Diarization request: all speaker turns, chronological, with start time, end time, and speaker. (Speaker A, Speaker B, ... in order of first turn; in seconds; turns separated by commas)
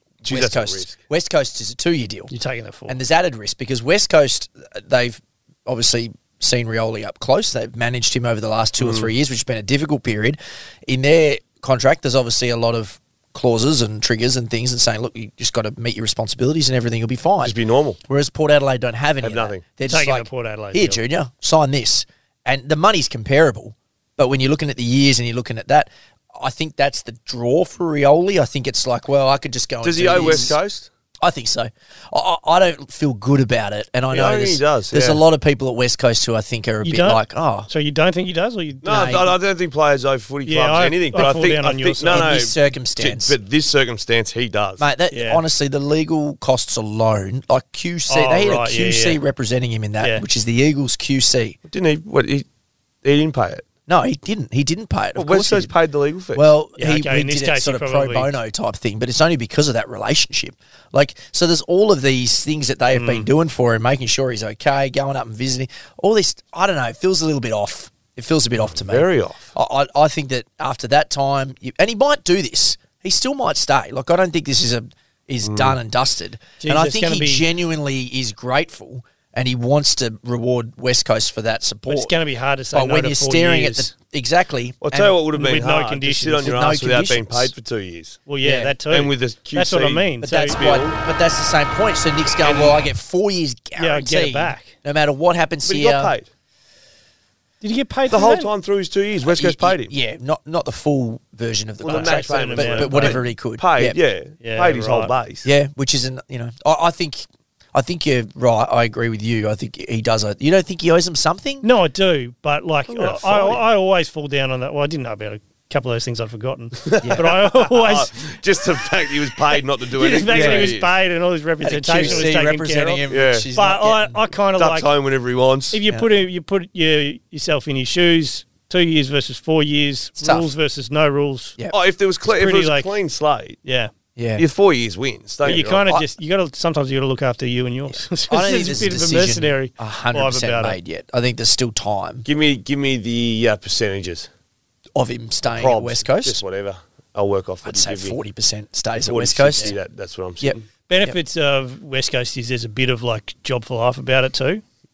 Speaker A: 0.2-1.0, Speaker B: 0.3-2.3, Speaker C: 2.3-3.0, Speaker B: 2.9-17.6, Speaker A: 8.8-9.1, Speaker A: 17.4-18.0, Speaker B: 18.1-30.6, Speaker A: 19.2-19.6, Speaker C: 19.8-21.0, Speaker A: 29.8-30.9, Speaker B: 31.2-37.7, Speaker A: 34.1-35.2, Speaker C: 36.8-39.1, Speaker A: 38.8-44.8, Speaker B: 38.8-39.3, Speaker C: 40.5-42.4, Speaker B: 42.1-43.4, Speaker B: 44.8-51.6, Speaker C: 45.1-45.4, Speaker C: 48.1-49.2, Speaker A: 51.7-52.5, Speaker A: 53.0-53.6, Speaker B: 53.9-55.7, Speaker A: 55.1-56.5, Speaker B: 56.3-82.1, Speaker C: 56.8-58.3, Speaker C: 62.9-63.3, Speaker A: 68.8-69.5, Speaker A: 75.4-75.8, Speaker C: 76.6-77.4, Speaker C: 81.9-83.9, Speaker B: 82.7-85.2, Speaker A: 84.8-88.2, Speaker C: 85.3-86.5, Speaker B: 86.4-87.5, Speaker C: 88.3-90.6, Speaker B: 88.4-88.8, Speaker A: 88.9-91.0, Speaker B: 90.2-96.1, Speaker C: 92.4-92.7, Speaker C: 93.8-94.7, Speaker A: 95.6-96.3, Speaker C: 97.6-98.5, Speaker A: 98.1-99.9, Speaker B: 99.2-104.0, Speaker A: 101.8-105.5, Speaker C: 101.8-103.2, Speaker C: 104.4-105.1, Speaker B: 105.4-111.6, Speaker C: 111.6-118.1, Speaker A: 112.9-113.6, Speaker A: 116.8-120.9, Speaker B: 117.0-117.3, Speaker C: 120.0-123.0, Speaker B: 120.1-120.7, Speaker B: 121.6-124.2, Speaker A: 122.0-122.3, Speaker A: 123.1-123.5, Speaker C: 123.5-124.9, Speaker A: 124.6-125.8, Speaker C: 125.7-131.6, Speaker B: 130.2-130.5, Speaker A: 131.7-133.6, Speaker C: 132.2-132.9, Speaker C: 133.6-133.9, Speaker B: 134.2-134.4, Speaker A: 134.4-135.8, Speaker C: 135.4-140.8, Speaker B: 137.9-142.2, Speaker A: 142.2-144.3, Speaker B: 144.9-146.4, Speaker A: 145.5-148.2, Speaker B: 147.6-149.8, Speaker A: 149.0-150.7, Speaker B: 150.4-151.2, Speaker C: 150.9-154.6